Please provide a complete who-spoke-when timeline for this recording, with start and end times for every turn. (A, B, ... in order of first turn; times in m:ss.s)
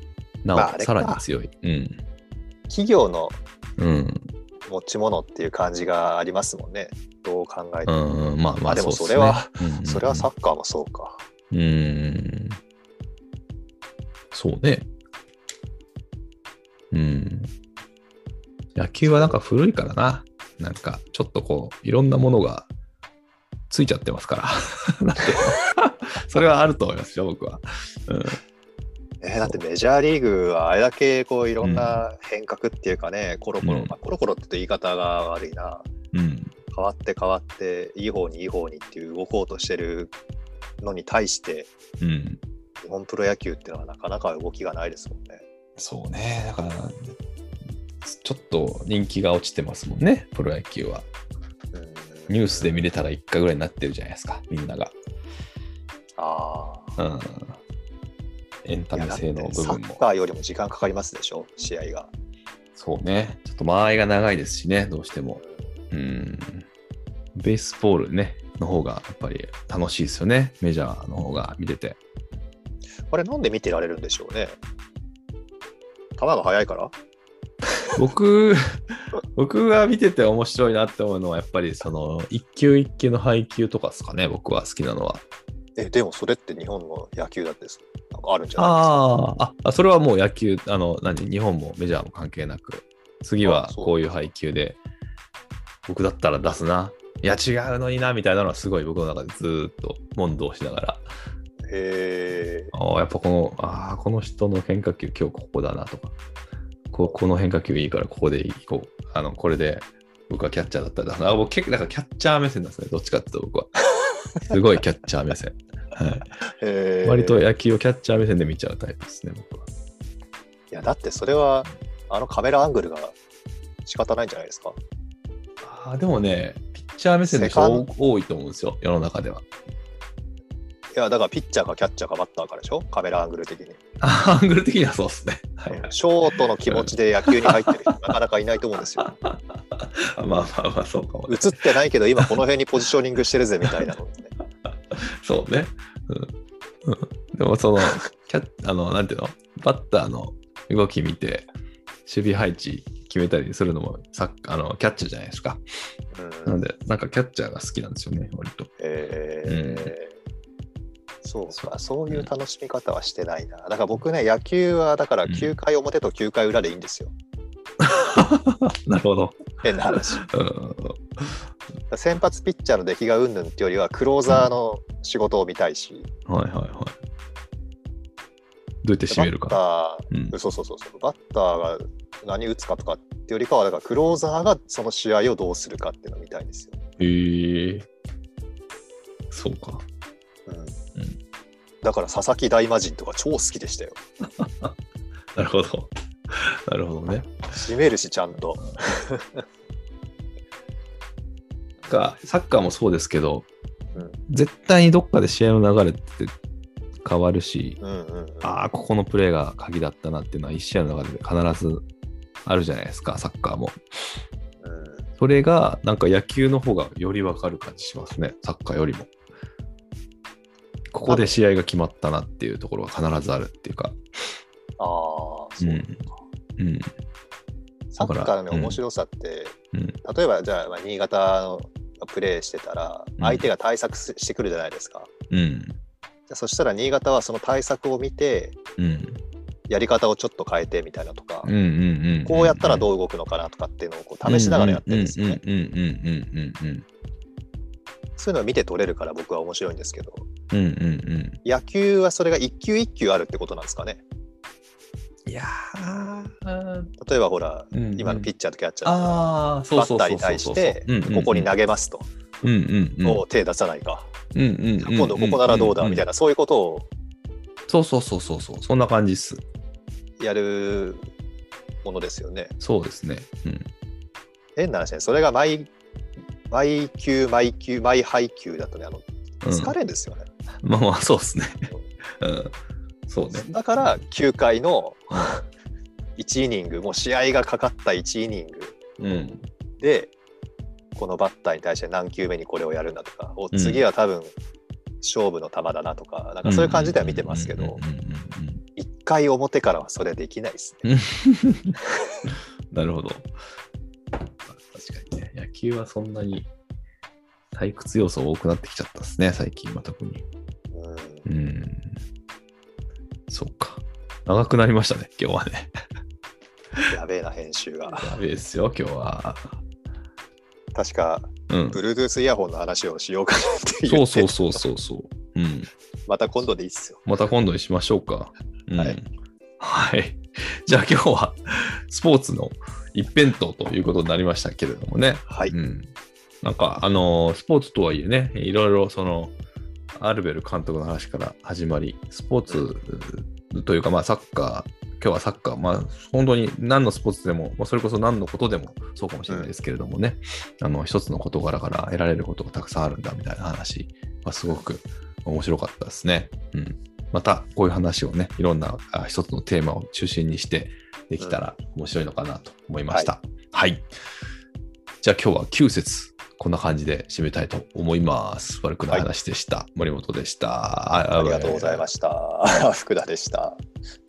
0:00.4-0:02.0 A
0:00.6-0:01.2 B
0:02.7-0:03.4 B
0:03.8-0:04.3 A
0:04.7-0:08.0 B
0:07.9-0:10.3 A
0:08.7-0:11.2 B
0:11.5-0:12.6 A
0:14.3-0:14.9 A
0:16.9-0:17.5 A
0:18.8-0:22.7 A
0:19.0-0:19.4 B
0:23.7-0:28.4 A
0:29.2-0:35.9 B
0:31.6-0:32.0 A
0:33.6-0:33.9 A
0:36.1-0:36.5 A
0:36.7-0:40.1 B
0:40.8-0:41.7 B
0:42.0-0:42.4 A
0:42.8-0:45.4 B
0:45.8-0:47.2 A
0:48.0-0:51.1 A
0:51.7-0:52.8 B
0:52.3-0:55.0 A
0:56.2-0:57.0 B
0:57.0-0:57.6 A
0:58.6-1:00.0 A
0:58.9-1:02.1 B
1:02.8-1:06.7 A
1:05.4-1:05.8 B
1:07.4-1:12.0 A
1:13.1-1:14.6 B
1:16.2-1:16.9 B
1:18.0-1:18.6 A
1:19.3-1:25.2 A
1:25.8-1:29.1 B
1:28.6-1:34.8 A
1:33.4-1:34.1 B
1:35.9-1:41.1 A
1:41.7-1:42.7 B
1:42.7-1:46.2 A
1:46.9-1:53.7 A
1:54.4-1:56.3 A
1:56.6-1:57.4 B
1:57.0-1:59.7 A
2:00.7-2:03.2 B
2:03.8-2:04.8 B
2:05.6-2:09.5 A
2:07.3-2:07.9 B
2:10.9-2:13.8 B
2:14.0-2:15.9 A
2:15.7-2:19.1 B
2:16.7-2:18.0 A
2:19.0-2:22.3 A
2:21.3-2:24.3 B
2:24.6-2:26.3 A
2:26.8-2:31.5 A
2:32.1-2:35.6 A
2:36.1-2:36.6 B
2:36.5-2:38.7 A
2:38.8-2:40.2 B
2:39.5-2:39.9 A
2:41.2-2:47.1 B
2:41.5-2:42.3 A
2:45.3-2:45.6 A
2:47.8-2:49.4 A
2:49.6-2:50.2 B
2:49.9-2:51.5 A
2:51.9-2:56.1 B
2:56.3-2:57.0 A
2:58.8-3:00.4 A
2:59.1-3:06.8 B
3:07.0-3:07.9 A
3:09.3-3:09.8 A
3:10.5-3:10.8 B
3:11.8-3:14.0 B
3:14.4-3:14.7 A
3:15.4-3:17.5 A
3:17.5-3:19.4 B
3:21.9-3:23.5 A
3:24.3-3:26.4 A
3:27.0-3:27.8 A
3:27.8-3:28.6 B
3:28.4-3:31.9 A
3:32.4-3:33.8 A
3:34.6-3:35.1 B
3:35.2-3:39.1 A
3:40.9-3:44.0 A
3:41.0-3:41.4 B
3:44.8-3:45.9 B
3:45.6-3:46.9 A
3:47.9-3:55.1 B
3:48.0-3:48.8 A
3:49.7-3:50.0 A
3:53.2-3:53.5 A
3:55.3-3:55.8 A
3:56.3-3:58.6 B
3:58.8-3:59.2 A
3:59.7-4:01.5 B
4:01.4-4:02.9 A
4:02.2-4:05.4 B
4:04.2-4:06.9 A
4:08.2-4:10.3 B
4:10.5-4:11.4 A
4:11.4-4:14.0 B
4:15.3-4:16.9 A
4:17.0-4:22.1 B
4:17.7-4:18.3 A
4:18.8-4:21.5 A
4:22.4-4:23.2 A
4:23.0-4:24.1 B
4:24.3-4:26.1 A
4:24.8-4:26.9 B
4:27.7-4:29.4 A
4:30.2-4:31.1 B
4:31.8-4:32.5 B
4:32.6-4:33.7 A
4:34.6-4:35.7 B
4:36.5-4:40.3 B
4:39.4-4:39.7 A
4:40.6-4:41.7 A
4:42.2-4:42.6 A
4:43.1-4:43.5 A
4:43.3-4:45.2 B
4:46.2-4:48.8 B
4:49.0-4:49.5 A
4:49.8-4:50.1 B
4:51.0-4:54.3 B
4:53.5-4:53.8 A
4:55.0-4:57.8 B
4:56.4-4:58.6 A
4:58.8-5:00.9 B
5:00.8-5:01.8 A
5:02.7-5:03.3 A
5:04.5-5:06.5 A
5:07.5-5:10.2 A
5:10.7-5:11.3 B
5:11.3-5:12.0 A
5:13.3-5:15.7 A
5:16.9-5:18.2 B
5:17.9-5:19.6 A
5:20.8-5:24.6 B
5:21.5-5:21.8 A
5:23.9-5:25.7 A
5:26.1-5:27.0 B
5:27.1-5:29.1 A
5:29.6-5:39.4 A
5:35.3-5:35.5 B
5:40.0-6:03.9 A
6:05.0-6:11.9 A
6:11.2-6:13.6 B